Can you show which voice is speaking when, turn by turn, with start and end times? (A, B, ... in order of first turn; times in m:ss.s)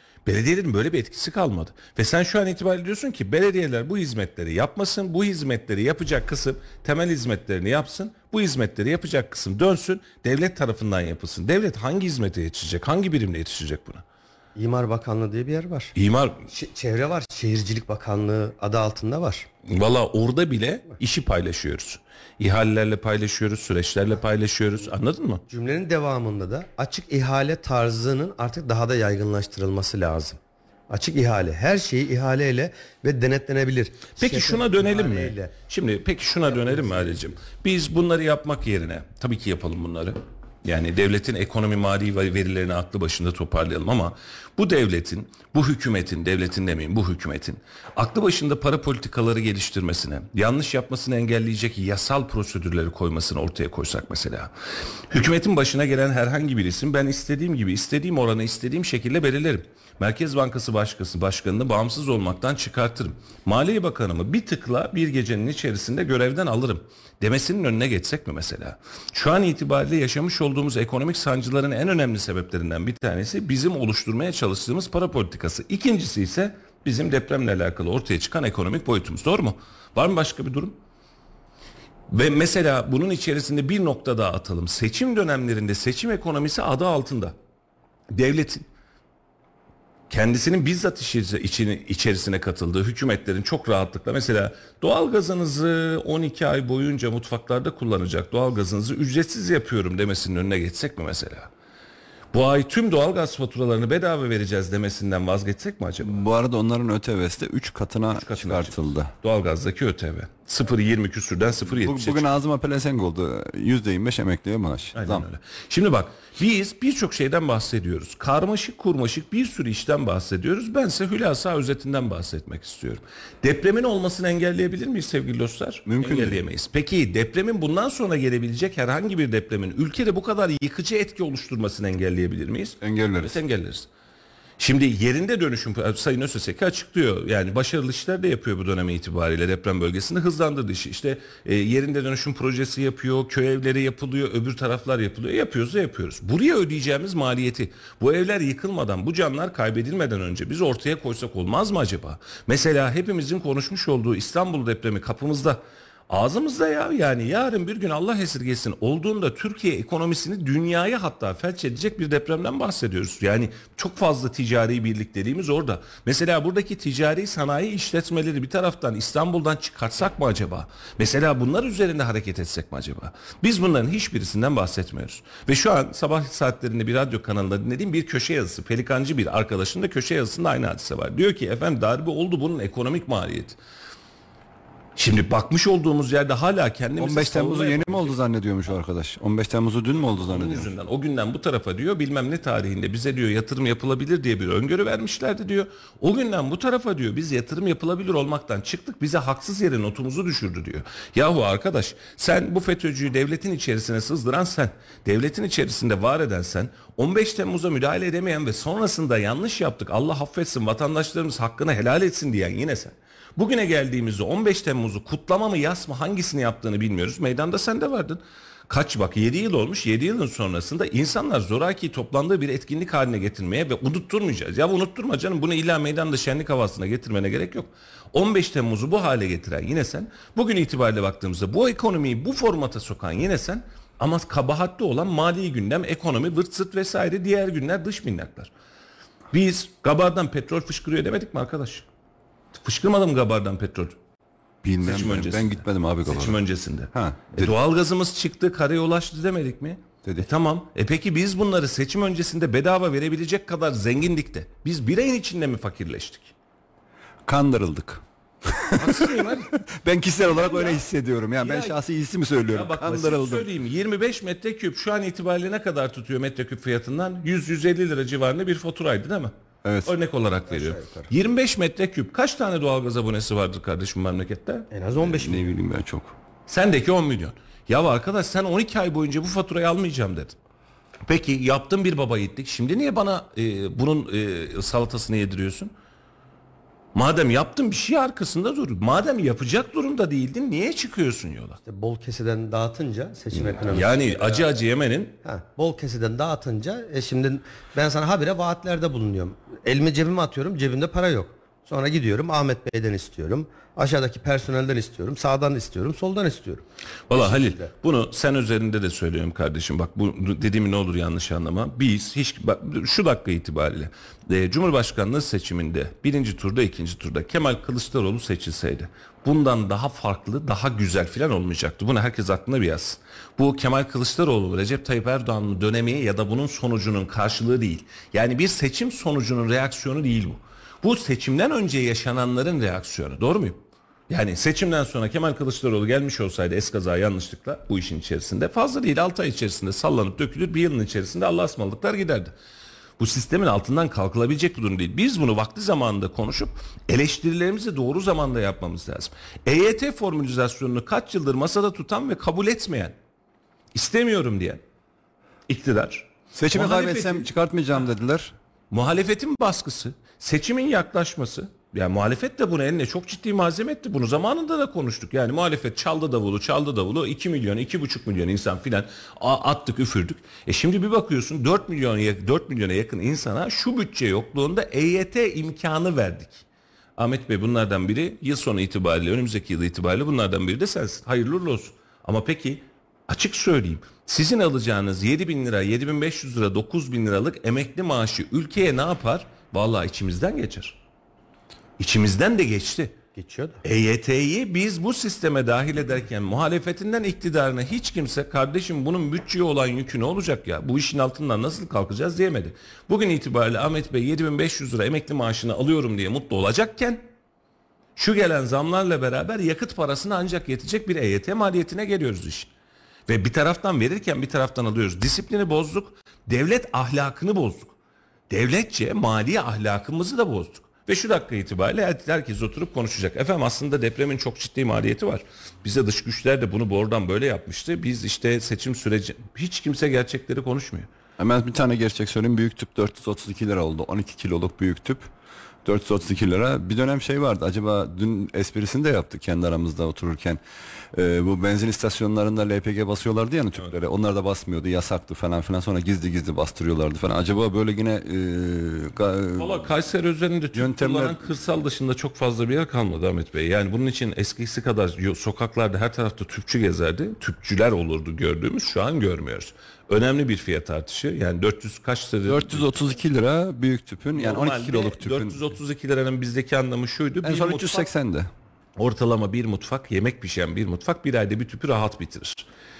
0:00.2-0:14.0 A
0:14.6-0:15.9 B
0:15.9-0:16.4 A
0:16.5-0:19.5 B
0:19.7-0:25.4 A
0:25.5-0:35.5 B
0:34.2-0:54.5 A
0:36.5-0:37.3 B
0:55.1-1:20.8 A
1:22.1-1:27.3 A
1:28.1-1:28.6 A
1:30.1-1:41.5 A
1:42.3-1:46.2 A
1:46.0-1:49.1 C
1:48.1-1:52.2 A
1:51.6-1:55.2 C
1:54.9-2:13.9 A
2:05.8-2:06.4 C
2:12.8-2:13.4 C
2:14.6-3:03.6 A
3:05.0-3:08.2 A
3:07.0-3:10.7 C
3:10.2-3:58.5 A
3:59.3-4:01.8 A
4:02.5-4:04.0 A
4:04.6-4:06.4 C
4:04.8-4:16.3 A
4:06.9-4:07.5 C
4:17.2-4:23.5 C
4:18.8-4:19.5 A
4:20.2-4:20.8 A
4:21.4-4:21.8 A
4:22.5-4:29.3 A
4:29.6-4:29.9 C
4:29.8-4:34.7 A
4:30.5-4:31.1 B
4:34.7-4:35.5 B
4:35.0-4:36.1 C
4:36.5-4:40.4 A
4:41.0-4:45.7 A
4:46.9-4:51.6 A
4:51.6-4:54.4 B
4:53.3-4:55.1 A
4:55.2-5:07.7 B
5:07.1-5:42.3 A
5:43.0-5:52.9 A
5:53.7-5:54.6 A
5:55.5-5:57.3 A
5:56.3-5:58.3 C
5:58.7-6:16.4 A
6:17.0-6:30.8 A
6:31.8-6:32.9 A
6:33.1-6:33.6 B
6:33.6-6:47.1 A
6:48.0-6:52.5 A
6:53.1-6:57.7 A
6:58.3-7:10.9 A
7:11.2-7:15.1 C
7:15.6-7:20.4 C
7:20.9-7:29.7 C
7:29.4-7:42.7 A
7:30.5-7:31.2 C
7:42.2-7:45.5 C
7:44.1-7:47.9 A
7:47.2-7:48.3 C
7:48.8-7:52.5 A